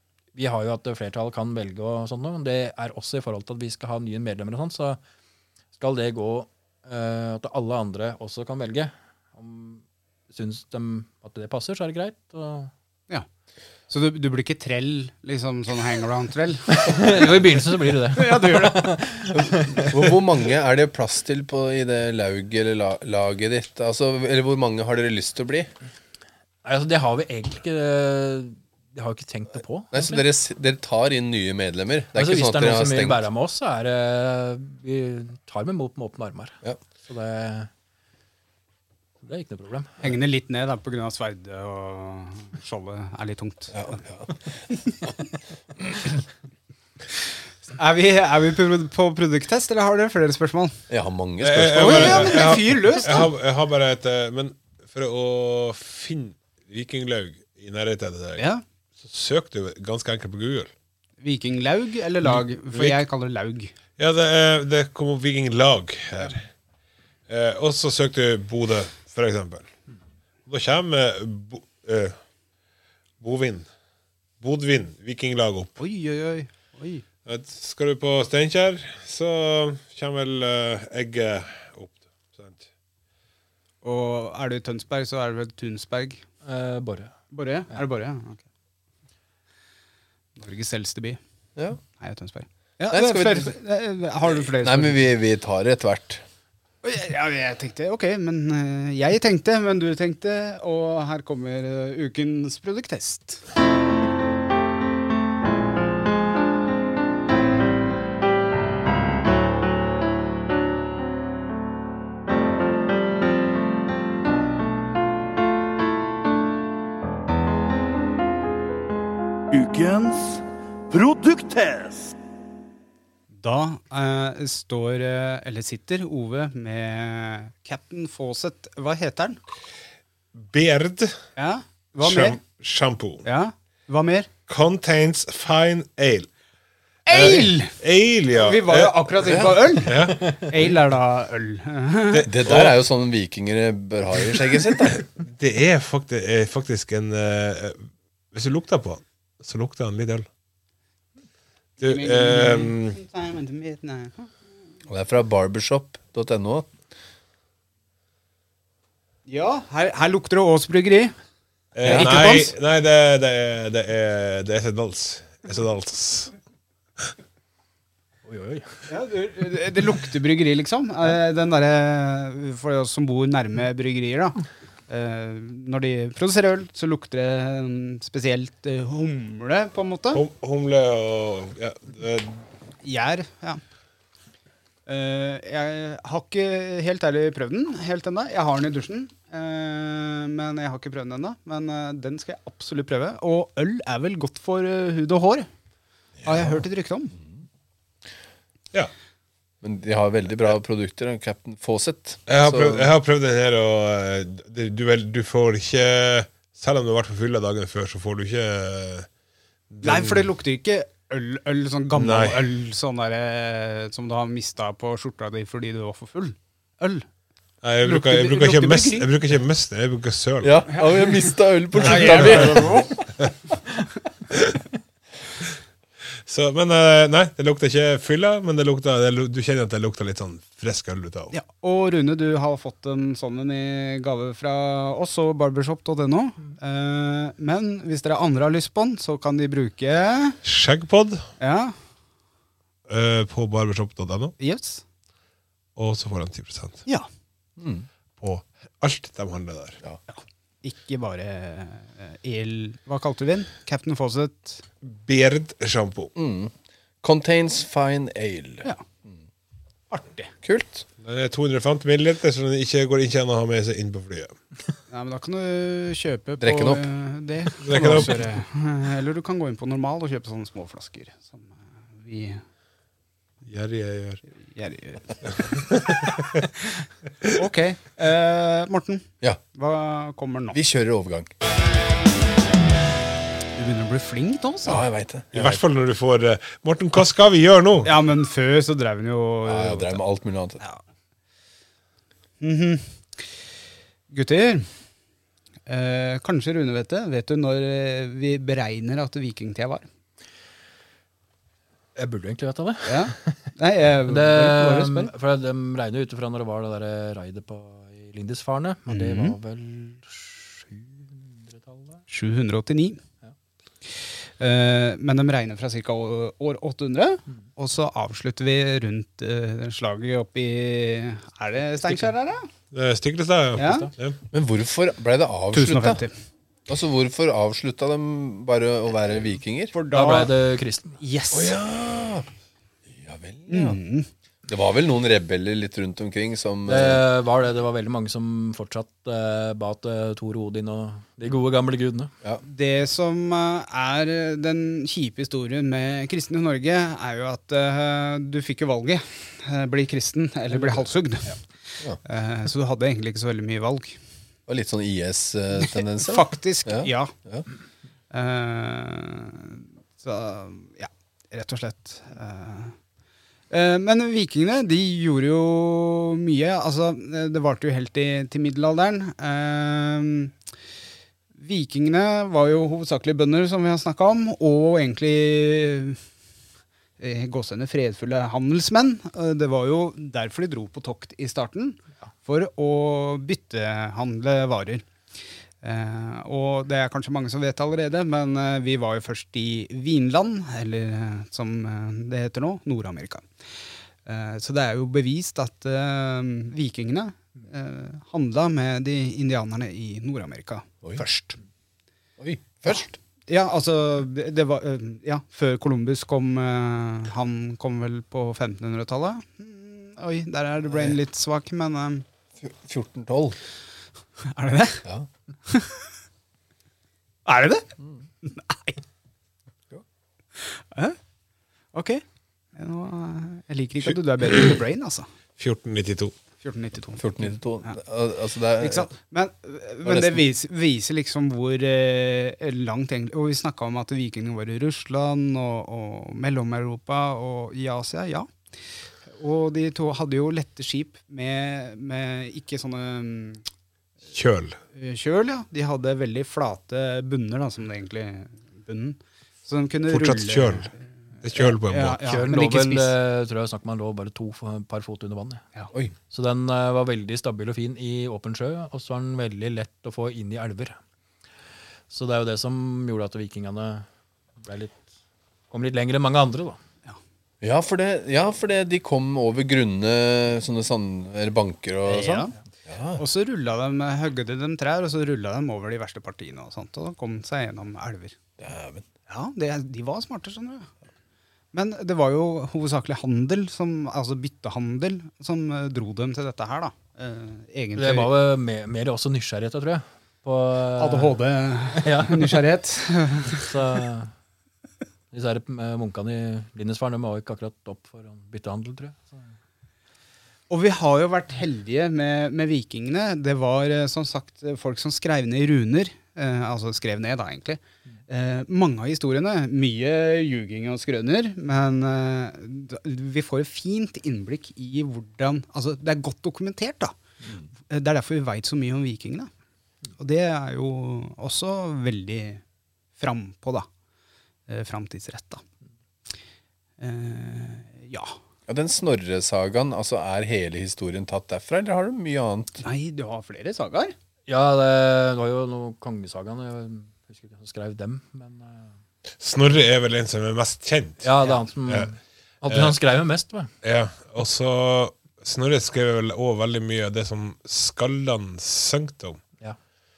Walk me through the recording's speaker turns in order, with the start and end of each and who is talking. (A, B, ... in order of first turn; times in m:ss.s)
0:00.3-0:05.0 A
0:05.8-0:12.7 A
0:13.9-0:17.4 B
0:16.7-0:20.2 A
0:18.1-0:18.9 B
0:19.4-0:25.7 C
0:26.6-0:30.2 A
0:29.9-0:33.2 C
0:32.2-0:37.7 A
0:39.2-0:40.1 A
0:40.0-0:44.0 B
0:43.7-0:44.4 C
0:47.8-0:50.8 B
0:50.9-0:52.6 C
0:51.4-0:58.4 D
0:51.7-0:53.3 B
0:58.4-0:58.6 B
0:59.0-1:00.7 D
1:01.2-1:03.7 B
1:02.3-1:03.0 D
1:04.0-1:06.4 D
1:07.3-1:09.7 D
1:10.5-1:12.2 D
1:13.2-1:13.7 D
1:14.4-1:15.8 D
1:15.8-1:17.0 B
1:17.3-1:22.6 D
1:23.8-1:26.2 B
1:26.4-1:27.2 A
1:27.3-1:28.4 B
1:30.4-1:31.2 B
1:32.0-1:35.0 B
1:32.9-1:33.5 C
1:34.5-1:36.2 C
1:36.8-1:43.4 B
1:59.5-2:02.2 E
2:03.3-2:09.4 B
2:10.4-2:11.2 D
2:11.4-2:12.4 B
2:12.0-2:13.2 D
2:13.2-2:14.3 B
2:14.5-2:16.3 D
2:17.1-2:17.8 B
2:17.1-2:20.6 D
2:18.3-2:22.6 B
2:19.2-2:19.5 C
2:22.1-2:22.8 D
2:22.2-2:25.0 C
2:25.2-2:30.3 D
2:31.8-2:33.0 D
2:31.8-2:34.3 B
2:34.9-2:36.7 C
2:39.3-2:41.2 B
2:41.8-2:46.3 D
2:41.8-2:42.1 C
2:41.9-2:42.5 B
2:48.2-2:48.8 A
2:48.9-3:00.2 B
3:00.1-3:02.4 D
3:02.8-3:03.6 B
3:04.9-3:15.5 B
3:16.2-3:16.5 C
3:16.2-3:17.2 B
3:19.6-3:22.9 C
3:22.3-3:29.1 D
3:29.7-3:30.3 D
3:29.8-3:37.1 B
3:31.9-3:32.4 D
3:37.6-3:40.6 D
3:37.8-3:39.1 B
3:40.4-3:43.0 C
3:40.7-3:41.2 B
3:41.8-3:43.0 B
3:44.3-3:44.6 D
3:46.3-3:51.3 D
3:51.3-4:00.4 B
4:00.4-4:01.3 D
4:01.4-4:01.8 B
4:02.9-4:04.4 D
4:04.4-4:04.8 B
4:05.8-4:06.8 D
4:07.6-4:07.9 C
4:08.2-4:09.8 D
4:10.1-4:14.6 B
4:14.8-4:16.1 D
4:16.2-4:19.2 C
4:19.9-4:20.3 B
4:20.4-4:20.8 C
4:21.0-4:24.4 D
4:24.9-4:32.4 B
4:26.4-4:26.9 C
4:27.6-4:28.3 D
4:33.5-4:34.2 D
4:34.5-4:35.5 B
4:35.5-4:36.4 D
4:37.3-4:40.6 B
4:40.5-4:41.3 C
4:43.6-4:45.6 B
4:44.6-4:45.3 C
4:45.3-4:47.9 D
4:47.8-4:50.0 B
4:49.5-4:50.6 C
4:52.4-4:53.3 B
4:54.1-4:54.7 B
4:55.7-4:59.8 B
5:02.0-5:03.4 A
5:02.9-5:05.1 B
5:04.1-5:12.0 A
5:08.9-5:09.4 B
5:12.1-5:13.0 B
5:13.9-5:22.5 B
5:22.7-5:24.2 D
5:23.6-5:23.9 B
5:23.6-5:23.9 A
5:24.3-5:26.0 C
5:25.5-5:26.1 B
5:26.7-5:29.7 C
5:29.7-5:30.4 B
5:29.9-5:31.0 A
5:31.0-5:31.6 B
5:31.3-5:32.3 C
5:32.9-5:33.8 C
5:33.5-5:34.1 B
5:34.5-5:37.0 C
5:36.6-5:42.1 A
5:42.4-5:54.0 B
5:54.5-5:57.5 C
5:55.6-5:57.1 B
5:58.1-6:02.8 B
6:03.5-6:10.3 B
6:11.4-6:16.0 B
6:17.0-6:24.9 B
6:25.6-6:33.3 B
6:34.0-6:41.4 B
6:42.2-6:42.9 C
6:42.7-6:52.0 B
6:52.4-6:53.4 C
6:54.3-6:54.9 B
6:55.5-6:55.9 B
6:57.3-6:58.8 B
7:00.4-7:01.0 B
7:01.7-7:02.0 B
7:02.6-7:05.1 B
7:05.4-7:06.2 D
7:06.4-7:07.8 B
7:07.0-7:08.9 C
7:08.6-7:18.3 B
7:09.8-7:10.2 C
7:19.1-7:23.4 B
7:24.1-7:24.6 D
7:24.7-7:33.0 B
7:29.9-7:30.7 D
7:31.2-7:32.0 D
7:32.0-7:35.4 A
7:36.1-7:40.8 A
7:41.9-7:43.9 A
7:44.4-7:44.8 A
7:45.5-7:46.6 A
7:47.4-7:53.0 C
7:51.9-7:52.3 B
7:53.0-7:58.2 B
7:58.4-7:58.8 C
7:59.1-8:00.7 B
8:01.5-8:08.1 B
8:07.8-8:11.2 A
8:10.8-8:13.5 B
8:11.7-8:12.4 A
8:13.3-8:14.1 A
8:15.1-8:19.3 A
8:20.5-8:36.9 B
8:37.7-8:39.3 B
8:40.0-8:42.4 B
8:43.0-8:43.7 B
8:44.5-8:45.4 B
8:46.8-8:48.2 B
8:48.5-8:52.6 C
8:52.6-8:54.0 B
8:54.3-8:58.7 A
8:59.2-9:01.1 D
9:01.0-9:03.5 A
9:02.5-9:02.8 D
9:03.6-9:09.2 D